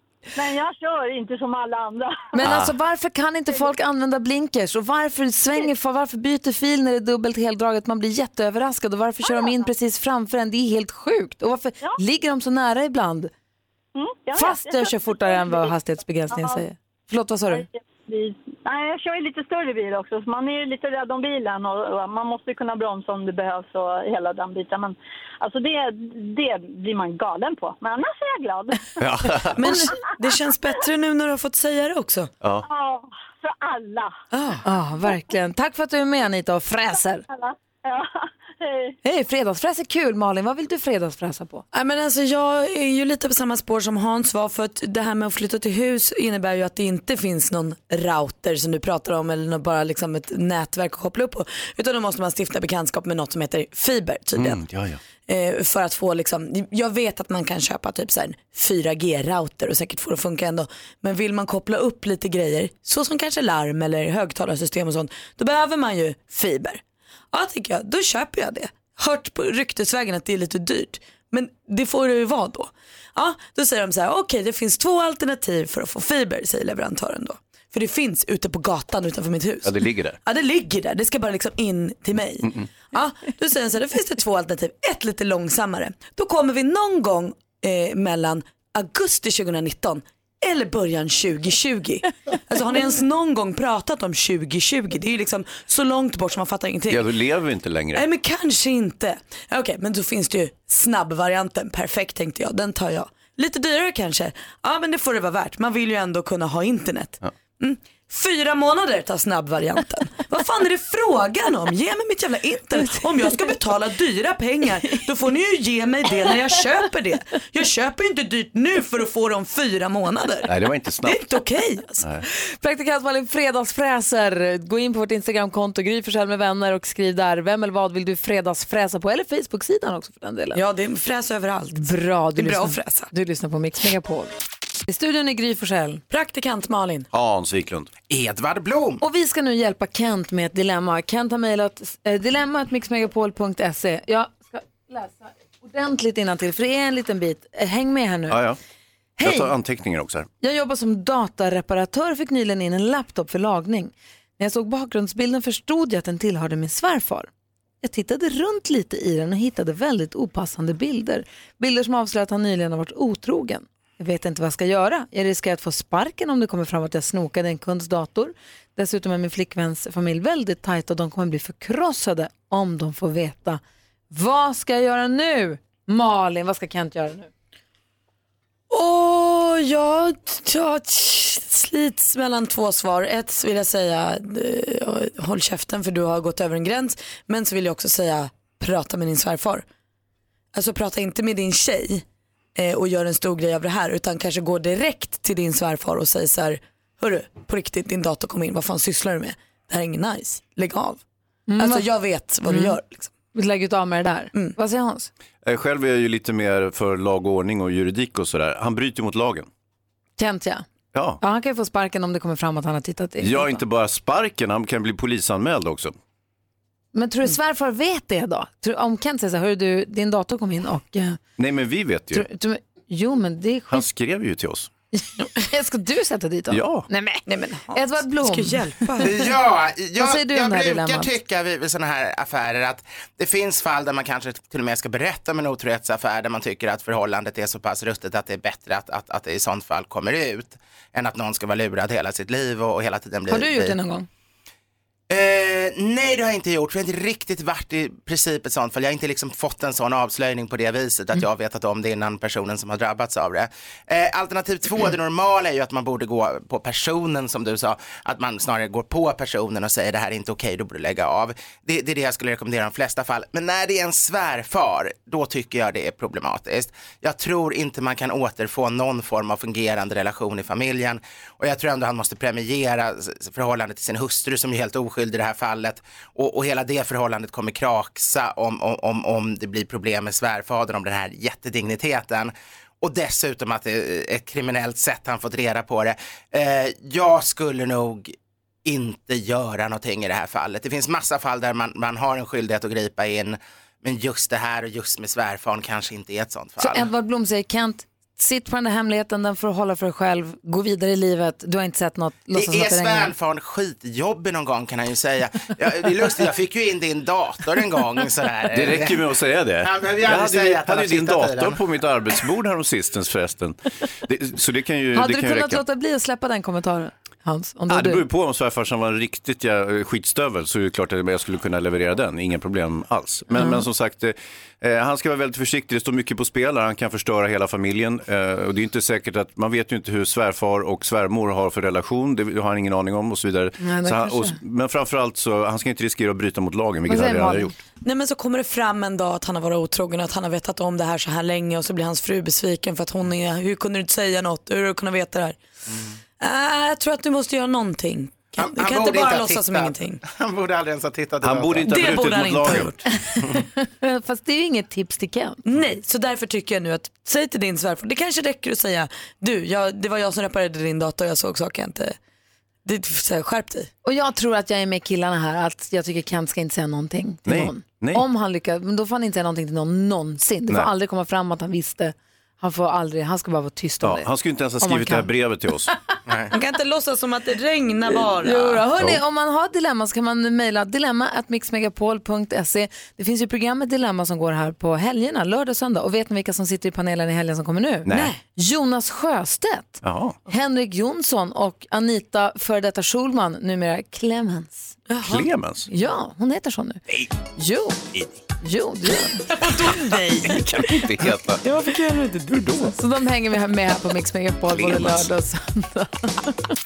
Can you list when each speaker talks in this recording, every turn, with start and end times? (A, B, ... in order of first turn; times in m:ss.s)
0:00.4-0:02.3 A
0:02.3-0:13.3 B
0:02.4-0:02.7 C
0:09.2-0:09.6 A
0:13.9-0:15.7 A
0:14.3-0:17.6 B
0:16.3-0:16.6 A
0:17.5-0:28.9 A
0:29.0-0:29.6 C
0:29.5-0:32.3 D
0:29.6-0:30.0 B
0:32.4-0:32.7 C
0:32.6-0:34.1 A
0:34.3-0:34.6 D
0:34.6-0:37.2 B
0:37.3-0:38.9 A
0:39.0-0:41.6 B
0:41.7-0:54.6 D
0:54.3-0:55.0 C
0:55.3-1:06.8 D
1:07.3-1:37.1 D
1:19.6-1:20.2 C
1:22.4-1:22.7 C
1:36.9-1:38.0 C
1:37.9-2:00.5 D
2:00.4-2:01.2 C
2:01.0-2:02.0 D
2:02.3-2:10.6 B
2:10.5-2:13.1 D
2:11.7-2:14.3 B
2:14.9-2:16.0 B
2:16.1-2:17.1 D
2:17.1-2:17.9 C
2:18.1-2:19.0 E
2:19.0-2:28.4 B
2:28.3-2:28.6 C
2:29.2-2:29.5 B
2:29.2-2:30.3 C
2:30.4-2:37.3 B
2:37.8-2:57.3 B
2:58.7-3:09.6 D
3:10.5-3:12.0 D
3:12.6-3:21.0 D
3:21.5-3:21.9 B
3:21.6-3:23.1 D
3:22.5-3:22.8 B
3:23.3-3:25.1 B
3:25.4-3:29.5 C
3:30.2-3:30.6 B
3:30.9-3:31.2 C
3:31.2-3:33.6 B
3:33.2-3:35.9 C
3:36.9-3:41.2 B
3:41.4-3:42.3 C
3:42.1-3:43.8 B
3:43.7-3:44.7 C
3:45.0-3:49.1 B
3:46.5-3:46.9 C
3:47.3-3:49.2 D
3:49.0-4:03.8 E
3:50.0-3:51.1 B
4:03.3-4:04.0 B
4:05.1-4:48.1 E
4:48.6-4:56.9 E
4:56.6-5:03.1 B
5:02.3-5:09.1 E
5:08.5-5:15.6 C
5:09.6-5:11.6 E
5:14.9-5:18.0 B
5:17.7-5:37.5 C
5:23.4-5:23.6 B
5:33.6-5:34.4 B
5:36.9-5:37.6 B
5:37.8-5:45.4 D
5:46.2-5:50.0 D
5:48.4-5:52.0 E
5:51.2-5:52.7 C
5:51.6-5:52.9 D
5:53.1-5:55.4 B
5:55.4-6:02.0 D
6:02.6-6:03.7 D
6:03.8-6:15.1 B
6:07.2-6:08.0 C
6:13.8-6:15.7 C
6:16.1-6:16.3 E
6:16.3-6:18.6 D
6:18.2-6:34.8 B
6:27.8-6:28.1 C
6:27.9-6:28.2 D
6:29.8-6:30.2 C
6:34.9-6:35.2 D
6:35.0-6:35.7 C
6:35.7-6:36.8 B
6:36.9-6:37.1 C
6:37.4-6:39.4 B
6:39.3-6:40.8 D
6:39.4-6:41.4 C
6:41.4-6:42.7 D
6:42.3-6:42.7 C
6:42.7-6:46.5 B
6:44.5-6:45.1 C